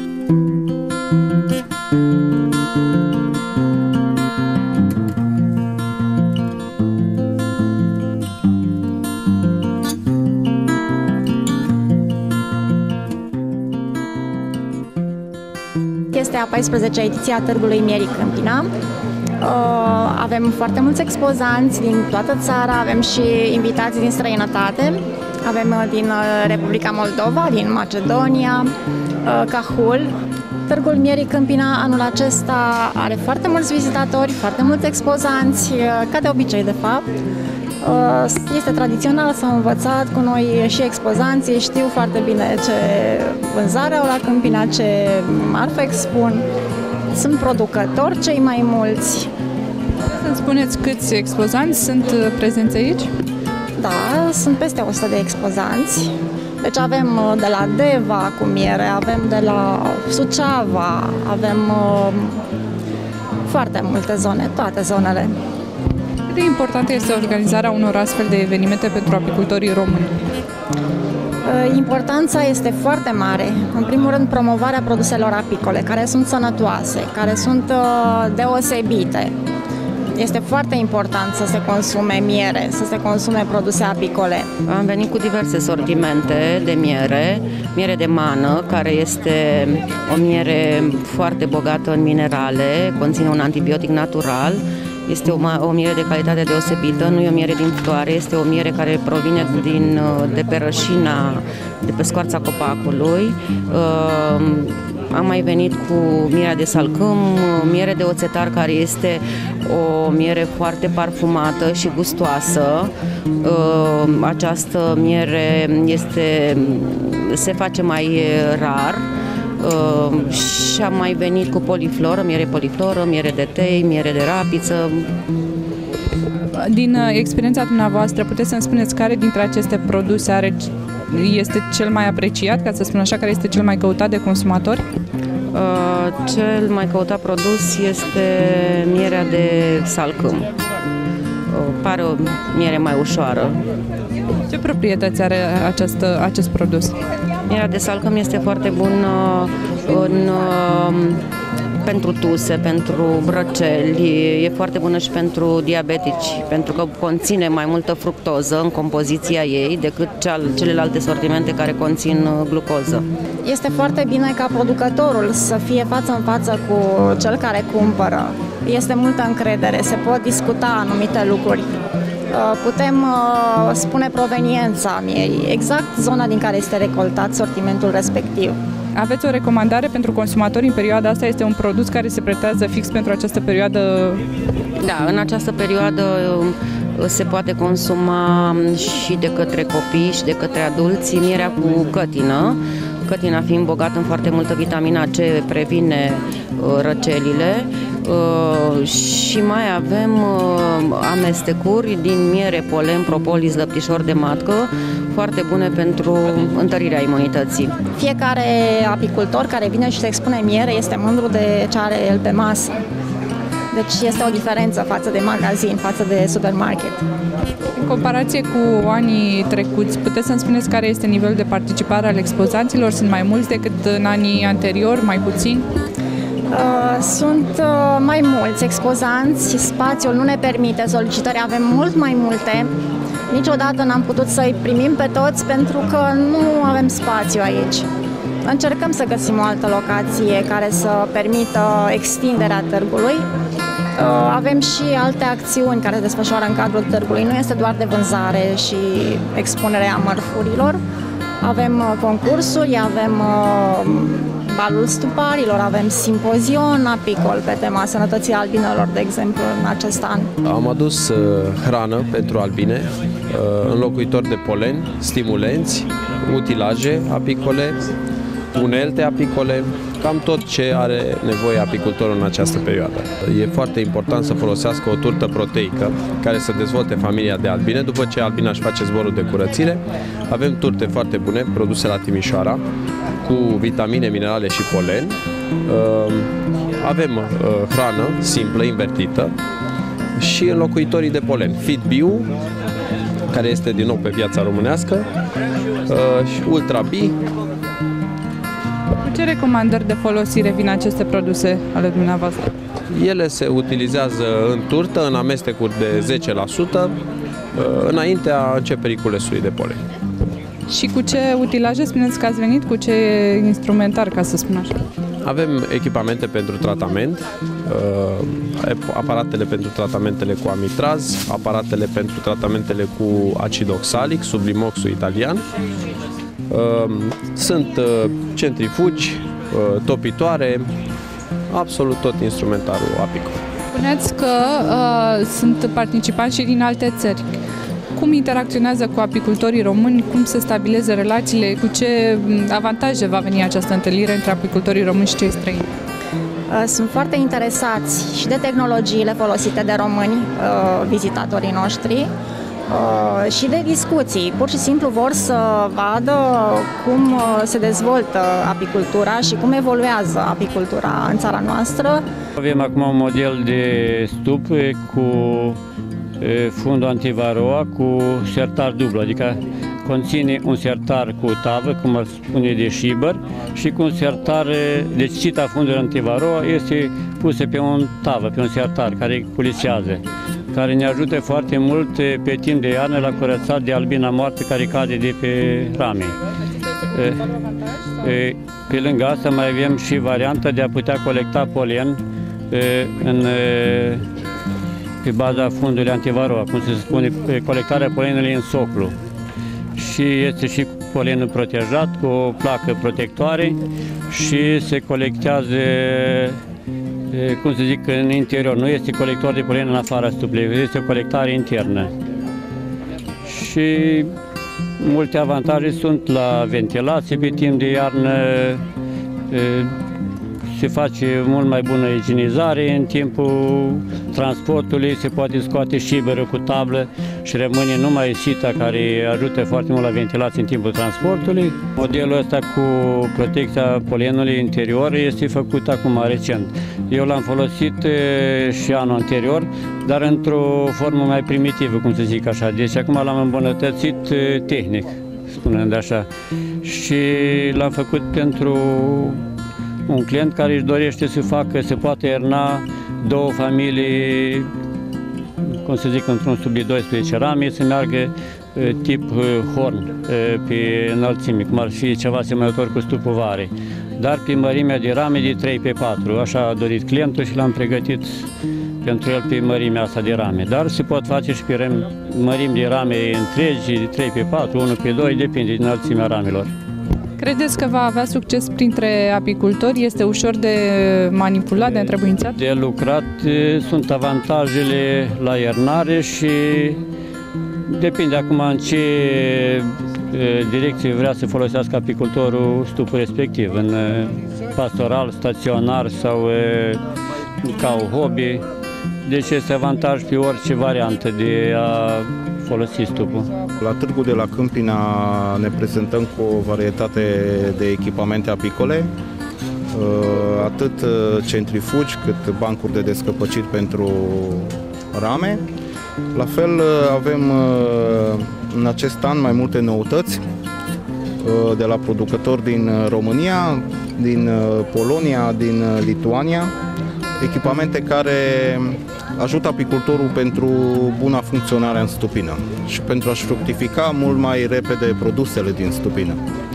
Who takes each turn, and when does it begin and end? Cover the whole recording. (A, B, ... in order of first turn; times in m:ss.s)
0:16.1-0:18.7 A
0:19.4-0:28.7 A
0:29.2-0:30.1 A
0:30.7-0:37.0 A
0:37.8-0:46.4 A
0:47.1-0:49.3 A
0:50.1-0:53.1 B
0:53.8-1:02.4 A
1:03.4-1:05.3 A
1:06.3-1:10.2 B
1:11.4-1:19.3 A
1:20.1-1:24.5 A
1:24.6-1:59.1 C
1:59.6-2:05.1 C
2:06.5-2:14.8 B
2:15.5-2:20.5 C
2:21.5-2:23.6 C
2:24.5-2:26.9 B
2:27.5-2:31.2 C
2:31.8-2:43.0 C
2:43.4-2:51.7 A
2:52.3-2:58.6 A
2:59.0-3:04.2 B
3:04.8-3:27.7 C
3:28.0-3:32.8 A
3:33.7-3:37.0 A
3:37.8-3:45.6 B
3:46.5-3:52.7 A
3:53.3-3:57.8 A
3:58.4-4:03.2 A
4:04.0-4:10.8 A
4:11.4-4:20.3 A
4:20.4-4:27.8 D
4:28.5-4:42.6 D
4:43.2-4:45.1 D
4:45.7-4:49.3 D
4:50.2-4:52.3 D
4:53.3-4:55.1 D
4:55.9-4:57.2 D
4:59.0-5:02.5 B
5:02.9-5:07.0 D
5:07.5-5:09.8 D
5:10.7-5:14.7 B
5:15.2-5:25.4 D
5:26.5-5:30.7 D
5:31.5-5:33.4 D
5:33.7-5:37.3 B
5:38.0-5:45.7 B
5:46.5-5:52.1 A
5:52.7-6:02.0 A
6:02.4-6:05.6 E
6:06.2-6:26.2 E
6:26.9-6:27.3 E
6:28.0-6:32.0 E
6:32.5-6:34.0 E
6:35.0-6:38.9 E
6:39.8-6:43.6 E
6:44.1-6:46.4 E
6:47.1-6:51.9 E
6:53.3-6:54.1 E
6:54.8-6:58.6 E
6:59.3-6:59.7 E
7:00.5-7:26.0 E
7:26.6-7:29.2 E
7:29.9-7:34.5 E
7:35.6-7:48.2 E
7:48.8-7:56.5 E
7:57.2-8:02.3 B
8:02.2-8:06.8 E
8:07.7-8:16.8 E
8:17.4-8:18.4 E
8:19.0-8:23.3 E
8:23.6-8:28.9 F
8:29.7-8:35.4 F
8:36.1-8:40.2 F
8:41.2-8:46.5 F
8:47.2-8:56.2 F